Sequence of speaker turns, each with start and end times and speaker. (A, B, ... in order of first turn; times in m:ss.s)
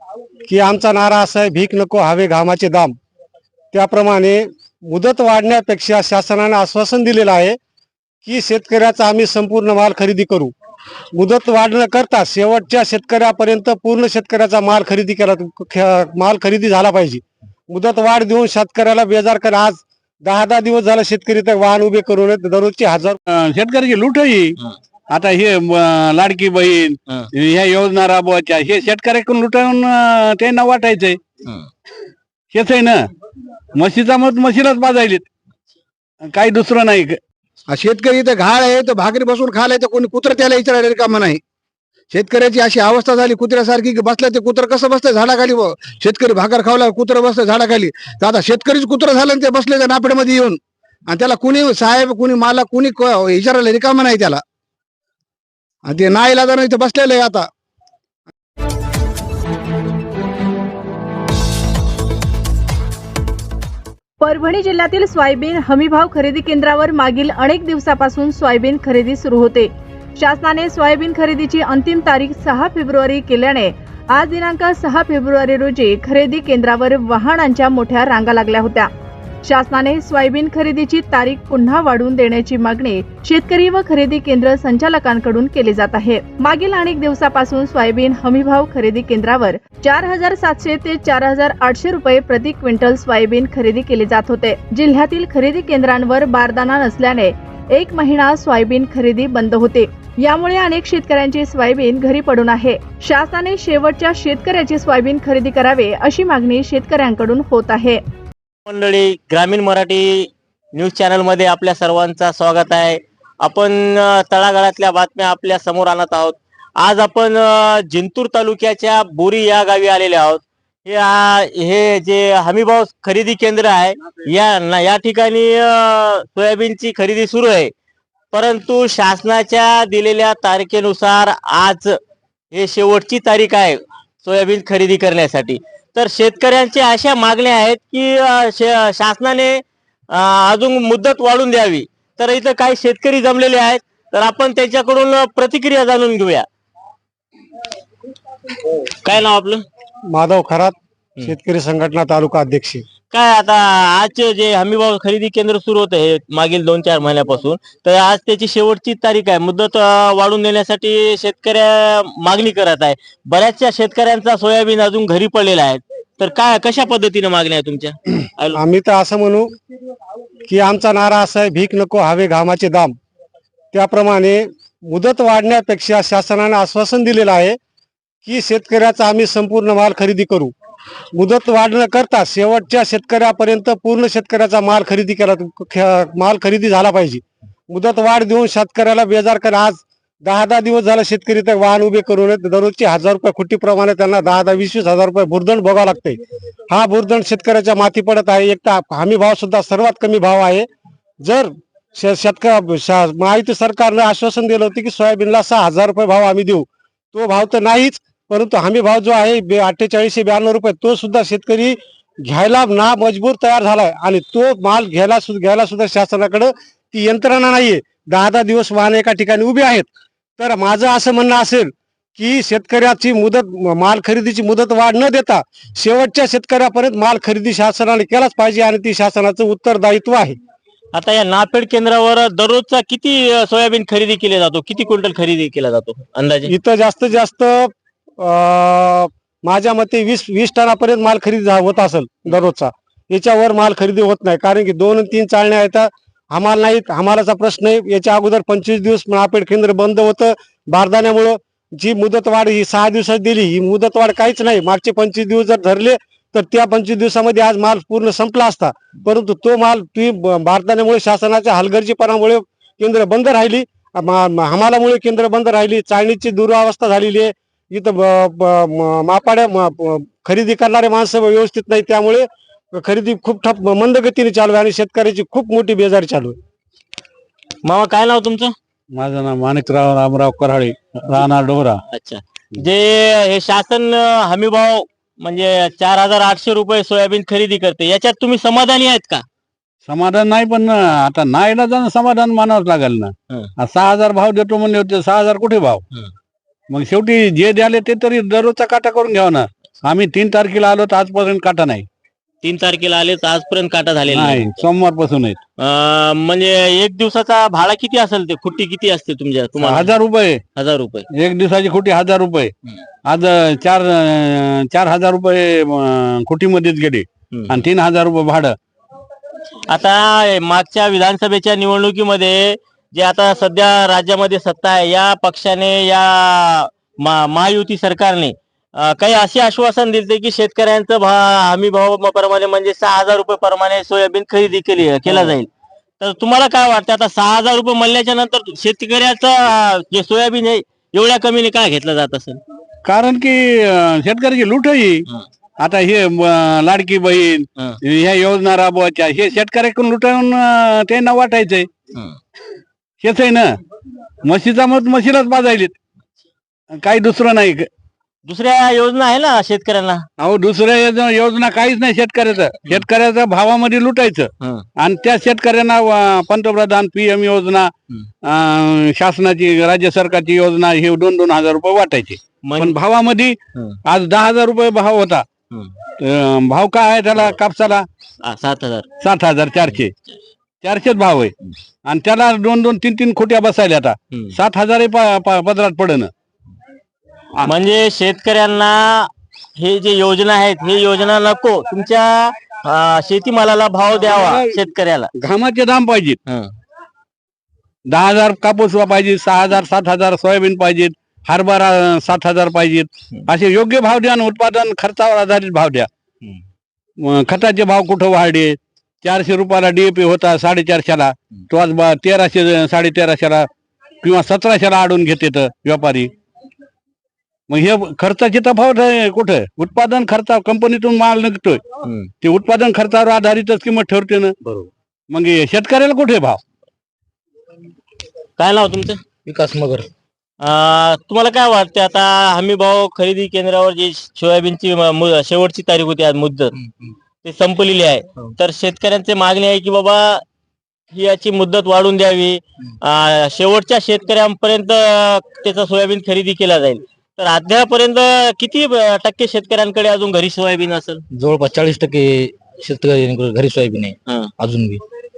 0:00.5-0:02.9 A
0:03.7-0:07.6 A
0:08.2-0:10.5 A
0:11.2-0:23.2 A
0:23.3-0:24.6 B
0:25.1-0:31.2 B
0:32.5-0:33.0 B
0:33.8-0:35.2 B
0:36.3-0:37.2 B
0:37.7-0:41.4 C
0:42.1-0:54.4 C
0:55.9-0:57.4 C
1:04.2-1:18.9 D
1:19.4-1:48.0 D
1:48.7-2:07.7 E
2:08.3-2:12.0 E
2:12.5-2:19.6 E
2:20.1-2:26.4 E
2:29.0-2:29.6 E
2:30.1-2:32.8 A
2:33.1-2:48.6 E
2:48.5-2:49.5 A
2:50.5-2:52.9 A
2:53.7-2:57.6 A
2:58.2-3:00.5 A
3:01.2-3:20.6 A
3:21.2-3:50.4 A
3:50.9-3:56.5 E
3:56.5-4:36.4 A
4:37.6-4:38.5 E
4:38.9-4:41.8 B
4:41.9-4:49.2 E
4:49.8-4:55.8 B
4:56.7-5:01.8 B
5:02.4-5:04.6 E
5:04.1-5:05.4 B
5:05.6-5:09.9 E
5:09.6-5:10.4 B
5:10.6-5:11.0 E
5:11.1-5:12.5 B
5:13.0-5:18.5 B
5:17.3-5:17.6 E
5:19.7-5:35.5 E
5:36.0-5:42.4 E
5:42.8-5:45.0 B
5:45.6-5:51.7 B
5:53.0-5:53.4 B
5:54.2-5:55.7 B
5:56.7-5:57.7 B
5:58.2-6:00.0 E
6:00.2-6:07.7 B
6:04.4-6:04.6 E
6:08.2-6:15.2 B
6:12.4-6:12.8 E
6:16.0-6:17.8 B
6:18.2-6:18.8 E
6:19.0-6:19.9 B
6:20.6-6:21.3 B
6:21.8-6:26.1 B
6:27.4-6:35.1 E
6:34.1-6:34.6 B
6:35.1-6:36.2 B
6:37.9-6:45.9 B
6:47.0-6:53.5 B
6:54.0-6:56.1 B
6:57.5-7:01.6 B
7:01.8-7:02.1 E
7:02.2-7:04.3 B
7:05.1-7:06.4 B
7:08.4-7:09.0 E
7:09.2-7:09.9 F
7:10.4-7:16.6 E
7:17.2-7:20.2 E
7:20.9-7:31.0 E
7:31.1-7:34.8 F
7:34.1-7:34.3 E